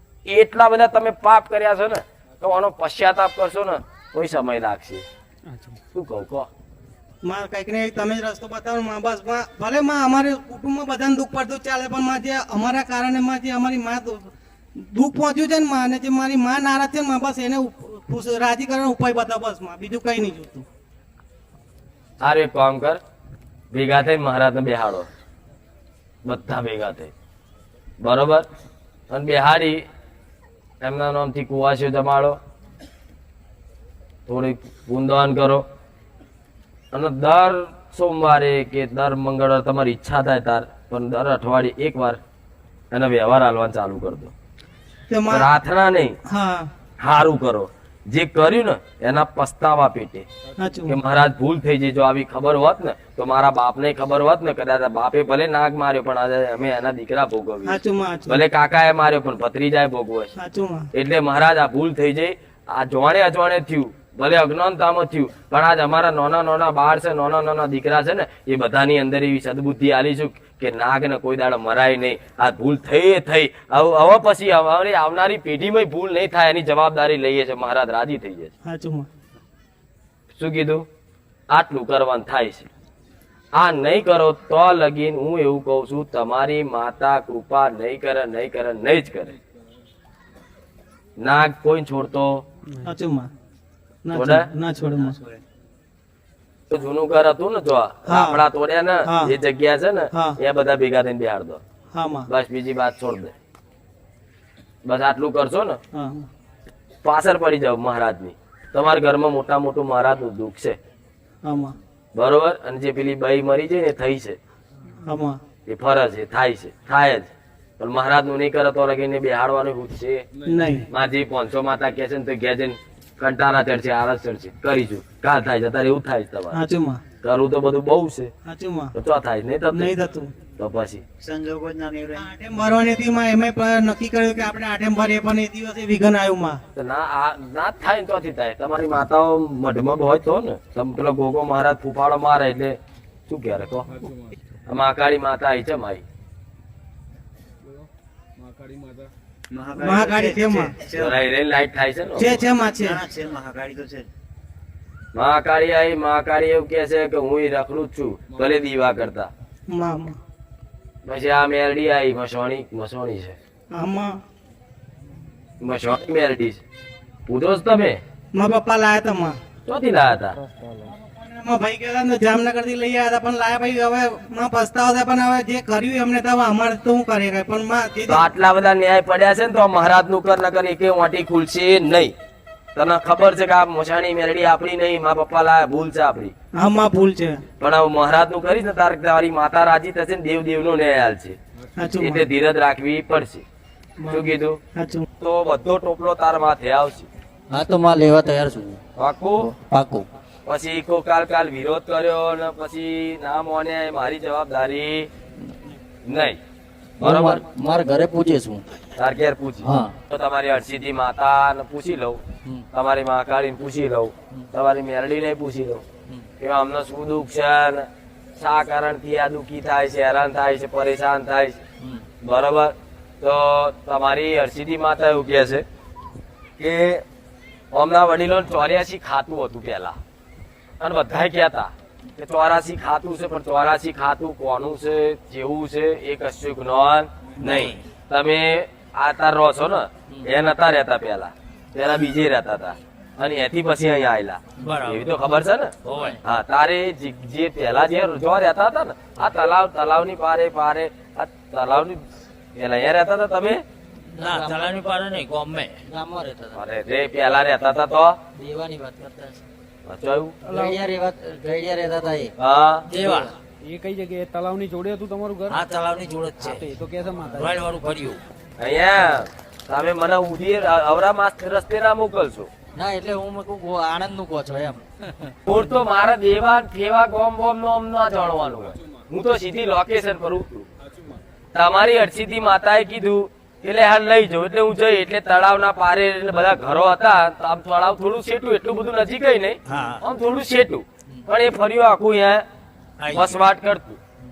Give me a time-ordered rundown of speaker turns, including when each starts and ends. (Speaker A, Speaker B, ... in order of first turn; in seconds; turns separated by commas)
Speaker A: 0.2-5.0, Speaker B: 5.5-5.8, Speaker A: 5.9-6.5, Speaker C: 7.2-20.6, Speaker A: 22.2-23.0, Speaker A: 23.7-25.1, Speaker A: 26.2-27.1, Speaker A: 28.0-28.4, Speaker A: 29.1-29.8, Speaker A: 30.8-32.4, Speaker A: 34.3-35.6, Speaker A: 36.9-42.2, Speaker A: 42.9-44.3, Speaker C: 45.1-45.5, Speaker A: 45.3-46.2, Speaker C: 46.2-46.7, Speaker A: 47.0-50.2, Speaker C: 50.6-51.0, Speaker A: 50.9-60.3, Speaker C: 57.6-58.4, Speaker C: 60.4-60.9, Speaker A: 60.9-78.5, Speaker C: 78.6-79.1, Speaker A: 80.3-80.8, Speaker A: 81.5-82.7, Speaker A: 83.5-89.3, Speaker A: 91.2-92.4, Speaker C: 92.8-93.3, Speaker C: 94.0-95.2, Speaker A: 94.1-94.5, Speaker A: 96.7-101.6, Speaker C: 98.1-98.4, Speaker C: 99.0-99.3, Speaker C: 101.9-102.3, Speaker A: 102.3-103.3, Speaker A: 104.8-105.8, Speaker C: 105.9-106.3, Speaker A: 107.0-110.8, Speaker C: 111.4-111.8, Speaker A: 112.1-114.4, Speaker C: 115.0-115.4, Speaker A: 115.7-120.2, Speaker C: 120.5-120.9, Speaker A: 120.9-126.6, Speaker C: 126.5-127.0, Speaker A: 127.2-128.3, Speaker C: 128.4-128.9, Speaker A: 128.9-129.9, Speaker C: 129.7-130.3, Speaker A: 130.6-131.0, Speaker D: 131.2-132.2, Speaker C: 132.1-136.6, Speaker A: 136.7-143.9, Speaker A: 144.7-146.0, Speaker D: 149.5-151.2, Speaker C: 149.8-150.8, Speaker A: 151.0-152.4, Speaker C: 152.2-153.0, Speaker D: 152.7-154.1, Speaker A: 155.1-159.3, Speaker C: 159.7-160.2, Speaker A: 161.0-163.3, Speaker C: 163.7-164.2, Speaker A: 165.6-166.6, Speaker A: 167.3-168.0, Speaker C: 168.3-169.4, Speaker A: 169.7-170.4, Speaker C: 171.2-178.3, Speaker A: 178.1-182.1, Speaker A: 182.7-186.3, Speaker C: 186.5-187.4, Speaker A: 187.6-191.4, Speaker C: 191.8-192.3, Speaker A: 191.9-193.4, Speaker C: 194.0-195.1, Speaker A: 194.1-194.6, Speaker A: 195.2-197.1, Speaker E: 197.5-198.8, Speaker A: 198.9-199.5, Speaker E: 199.4-200.1, Speaker A: 200.4-205.1, Speaker A: 206.0-206.4, Speaker E: 207.0-208.8, Speaker A: 207.0-207.4, Speaker A: 209.0-212.2, Speaker E: 209.6-209.9, Speaker A: 212.7-215.8, Speaker A: 216.4-221.6, Speaker A: 222.2-225.6, Speaker A: 226.6-227.0, Speaker A: 227.7-230.0, Speaker A: 230.8-252.0, Speaker D: 237.4-237.8, Speaker D: 244.6-245.1, Speaker D: 245.8-246.2, Speaker A: 252.5-253.6, Speaker E: 254.1-254.7, Speaker D: 254.2-255.8, Speaker E: 255.9-256.6, Speaker A: 256.5-258.2, Speaker E: 258.3-259.4, Speaker A: 259.8-260.4, Speaker E: 260.4-262.3, Speaker B: 260.4-260.7, Speaker A: 262.4-262.9, Speaker E: 262.9-263.3, Speaker D: 262.9-263.3, Speaker B: 263.6-265.6, Speaker D: 265.5-266.7, Speaker B: 266.6-267.4, Speaker D: 267.3-268.2, Speaker A: 268.6-272.5, Speaker E: 272.7-275.4, Speaker A: 275.4-280.7, Speaker A: 281.5-292.4, Speaker D: 289.7-290.0, Speaker D: 293.0-293.4, Speaker A: 293.1-294.0